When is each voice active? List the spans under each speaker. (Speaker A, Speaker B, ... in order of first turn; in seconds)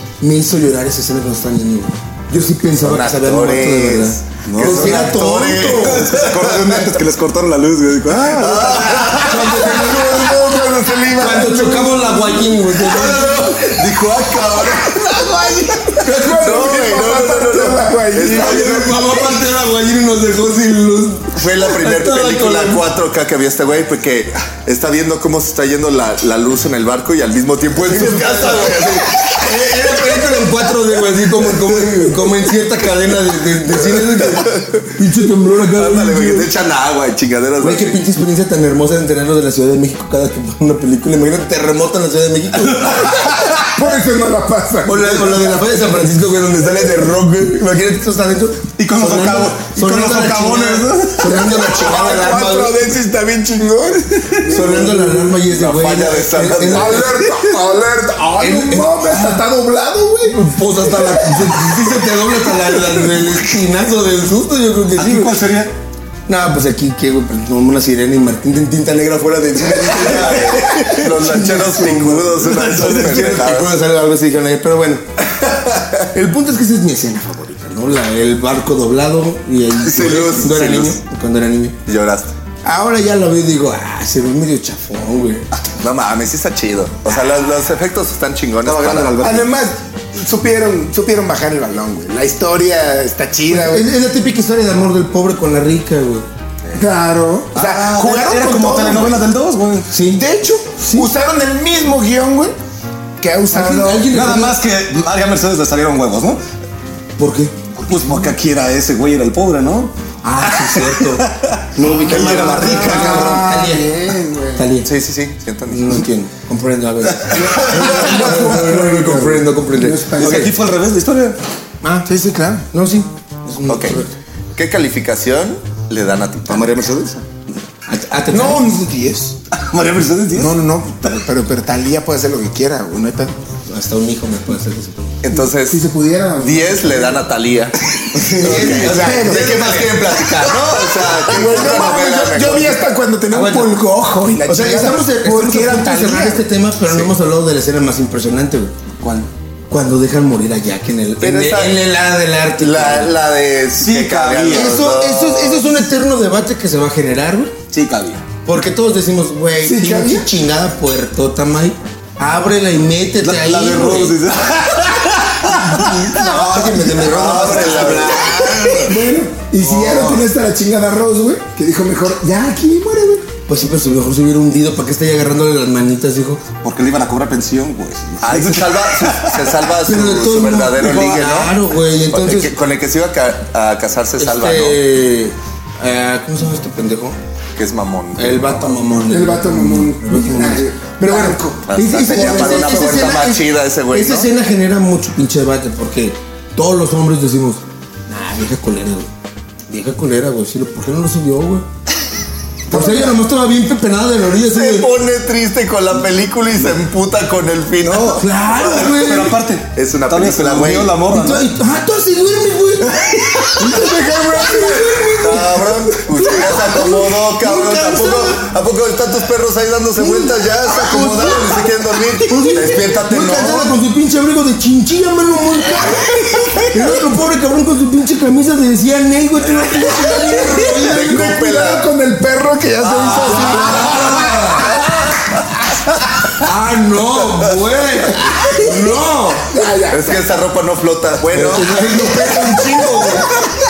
Speaker A: 0.2-6.0, 9.2-10.4, 11.1-13.6, 18.2-22.9, 27.8-36.5, 37.6-43.5, 44.9-52.8, 54.5-57.2, 58.4-59.4, 60.3-65.4, 66.3-75.0, 76.1-81.8, 82.6-85.5, 93.5-96.2, 99.9-100.3, 100.8-101.1, 103.5-104.6, 107.2-107.5, 110.2-111.2, 111.7-113.9, 114.5-114.9, 115.7-120.5, 121.8-122.1, 122.7-124.1, 127.9-128.7, 133.7-135.1, 138.1-140.6, 143.3-143.8, 144.4-148.7, 149.7-153.1, 154.5-157.5, 158.4-164.2, 165.6-169.0, 169.7-170.2, 173.5-176.4, 179.8-182.5, 184.2-187.2, 188.2-199.1, 199.7-201.6, 202.7-204.9, 208.1-209.4, 211.1-218.4, 220.0-226.1, 226.7-231.3, 233.3-234.6, 236.4-239.6, 241.3-243.3
Speaker B: 2.8-7.0, 8.1-9.7, 12.7-19.1, 21.4-29.5, 35.7-38.0, 55.5-57.1, 69.9-73.8, 79.8-81.0, 81.8-82.3, 85.8-89.2, 114.8-116.0, 123.7-126.9, 135.2-135.8, 136.4-137.8, 138.4-142.8, 151.2-151.8, 152.6-155.7, 166.9-168.9, 178.2-181.6, 182.1-184.8, 187.5-188.8, 191.7-194.3, 204.4-208.2, 209.7-211.0, 215.2-223.7, 230.8-231.8, 232.8-234.7, 239.9-241.7
Speaker C: 4.5-5.1, 5.6-9.3, 42.9-43.5, 48.8-52.0, 64.9-65.7, 70.0-71.6, 72.4-73.5, 88.6-89.5, 97.5-99.9, 104.1-106.4, 107.8-109.9, 110.5-113.4, 120.2-121.4, 126.5-127.2, 129.5-130.6, 149.0-149.3, 153.8-154.8, 157.7-158.2, 163.2-168.2, 176.6-179.7, 180.8-181.3, 207.8-211.5, 212.9-213.9
Speaker D: 9.2-12.7, 16.0-19.4, 43.6-45.6, 51.4-55.3, 56.7-62.3, 89.2-93.9, 96.7-99.2, 100.0-102.5, 103.2-104.1, 112.1-114.7, 117.3-120.5, 122.0-122.7, 128.3-129.3, 130.3-133.3, 135.7-137.2, 138.4-139.5, 141.3-146.5, 159.6-160.3, 168.9-173.3, 189.1-193.2, 202.7-203.2, 213.6-215.2, 230.7-234.7, 239.5-240.2, 241.3-243.2